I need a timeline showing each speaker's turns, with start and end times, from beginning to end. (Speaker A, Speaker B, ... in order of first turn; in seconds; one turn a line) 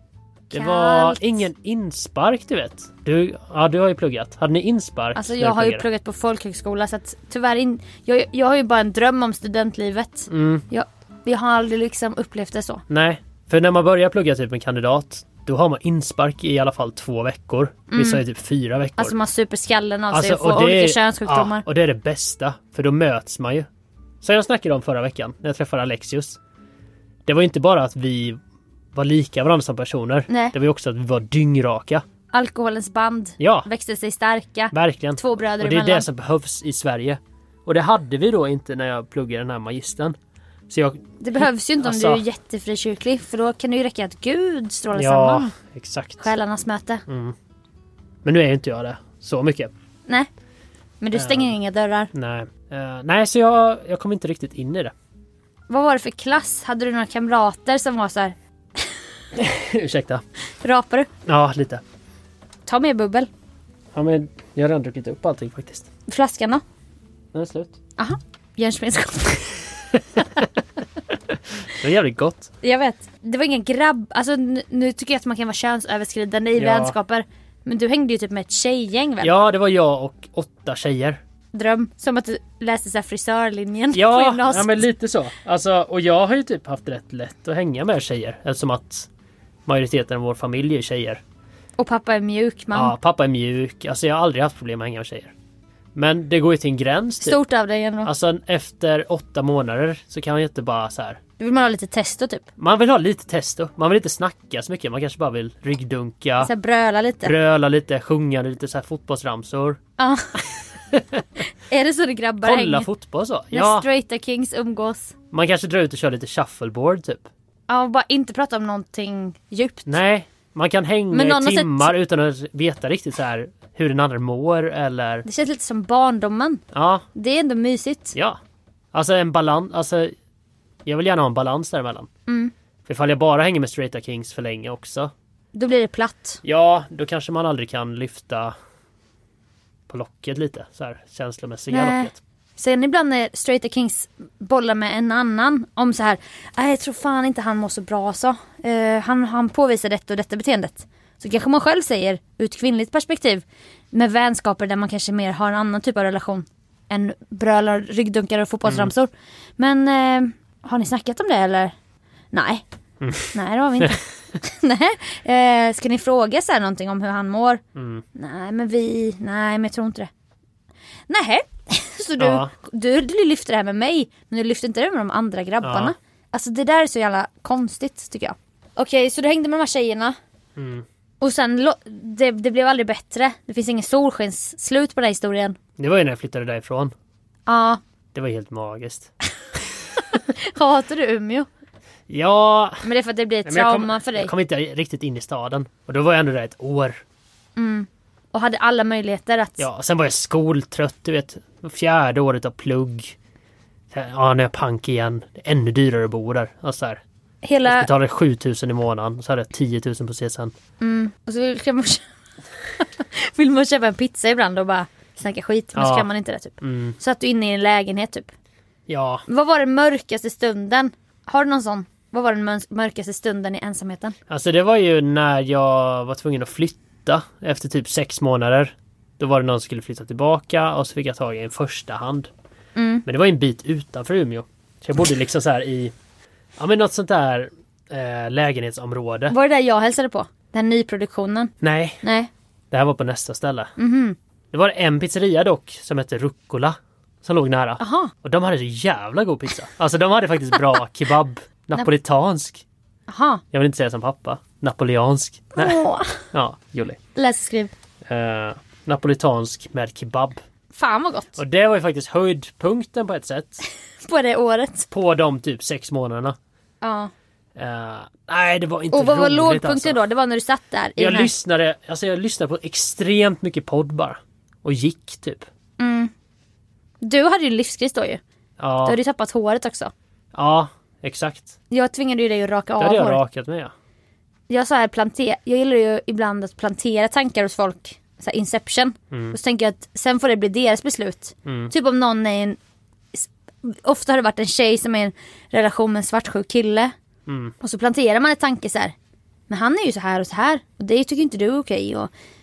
Speaker A: 0.5-1.4
Speaker B: 0.5-5.8
Speaker A: 5.2-12.8
Speaker B: 10.3-10.6
Speaker B: 12.9-19.1
Speaker A: 17.9-18.2
Speaker A: 19.0-21.6
Speaker B: 20.1-23.7
Speaker B: 24.2-26.4
Speaker B: 27.3-28.4
Speaker B: 28.9-32.0
Speaker A: 30.3-30.6
Speaker A: 32.3-36.1
Speaker B: 33.4-33.7
Speaker B: 34.7-40.1
Speaker B: 40.7-42.2
Speaker A: 41.2-45.5
Speaker B: 45.0-46.3
Speaker A: 46.2-47.0
Speaker B: 47.1-47.4
Speaker B: 48.2-49.7
Speaker A: 51.0-52.1
Speaker B: 51.1-51.5
Speaker B: 52.1-54.9
Speaker A: 55.7-58.4
Speaker B: 59.4-60.2
Speaker A: 60.6-61.1
Speaker B: 61.3-61.8
Speaker A: 62.7-63.3
Speaker B: 63.9-65.9
Speaker A: 66.1-66.6
Speaker B: 67.3-67.8
Speaker A: 68.0-69.6
Speaker B: 70.2-70.5
Speaker B: 71.7-72.5
Speaker A: 72.6-79.3
Speaker B: 76.6-77.0
Speaker B: 79.2-81.2
Speaker A: 81.5-84.8
Speaker B: 83.9-89.1
Speaker B: 89.7-91.2
Speaker A: 91.8-92.9
Speaker B: 92.7-95.3
Speaker B: 96.0-97.4
Speaker A: 97.2-98.1
Speaker B: 98.0-101.2
Speaker A: 101.4-102.5
Speaker B: 102.6-106.5
Speaker A: 106.4-107.3
Speaker B: 107.2-109.8
Speaker A: 110.0-110.4
Speaker B: 110.9-111.3
Speaker A: 111.7-112.9
Speaker B: 112.4-113.9
Speaker A: 113.5-115.1
Speaker B: 115.3-117.3
Speaker A: 117.7-120.0
Speaker B: 119.9-125.3
Speaker A: 121.1-121.9
Speaker A: 125.2-126.6
Speaker B: 126.7-127.0
Speaker A: 127.2-128.2
Speaker B: 128.9-130.1
Speaker B: 130.9-132.1
Speaker A: 132.3-132.5
Speaker B: 132.9-135.1
Speaker A: 135.5-136.4
Speaker B: 136.4-138.6
Speaker B: 139.9-142.2
Speaker A: 141.7-161.7
Speaker A: 162.3-162.6
Speaker B: 163.0-164.0
Speaker A: 163.3-167.6
Speaker B: 167.8-168.0
Speaker A: 168.2-170.1
Speaker A: 171.1-180.2
Speaker B: 172.2-172.5
Speaker B: 175.6-175.9
Speaker B: 180.6-180.8
Speaker A: 181.2-185.6
Speaker B: 185.8-186.9
Speaker A: 187.5-187.8
Speaker B: 188.1-189.1
Speaker A: 190.4-191.5
Speaker B: 192.1-192.8
Speaker A: 192.8-194.3
Speaker B: 193.5-197.0
Speaker A: 197.6-199.7
Speaker B: 199.6-203.2
Speaker B: 203.9-207.0
Speaker A: 207.4-207.9
Speaker B: 207.7-210.5
Speaker A: 210.8-212.0
Speaker A: 212.8-218.3
Speaker B: 215.8-216.1
Speaker B: 216.6-217.0
Speaker B: 218.9-219.2
Speaker A: 219.3-224.2
Speaker B: 224.3-232.3
Speaker A: 232.8-233.0
Speaker B: 233.1-235.9
Speaker B: 236.6-239.3
Speaker A: 239.3-241.5
Speaker B: 241.6-242.0
Speaker A: 242.0-242.3
Speaker B: 242.7-243.7
Speaker A: 243.8-244.2
Speaker B: 244.5-252.6
Speaker A: 247.8-248.1
Speaker A: 253.1-253.4
Speaker B: 253.5-257.0
Speaker A: 255.6-256.2
Speaker A: 257.2-257.7
Speaker B: 258.1-260.4
Speaker A: 260.7-261.4
Speaker B: 261.4-263.6
Speaker A: 264.1-264.9
Speaker B: 264.9-266.4
Speaker A: 266.8-267.1
Speaker B: 267.6-270.0
Speaker A: 268.9-271.3
Speaker B: 271.0-275.5
Speaker A: 275.8-276.1
Speaker A: 277.0-278.2
Speaker B: 278.6-279.0
Speaker A: 278.8-279.9
Speaker B: 280.3-281.6
Speaker A: 281.7-283.2
Speaker B: 282.8-283.7
Speaker A: 284.5-292.6
Speaker B: 289.1-289.4
Speaker B: 291.4-291.7
Speaker A: 293.1-296.9
Speaker B: 297.3-297.5
Speaker A: 297.6-298.9
Speaker A: 299.5-302.1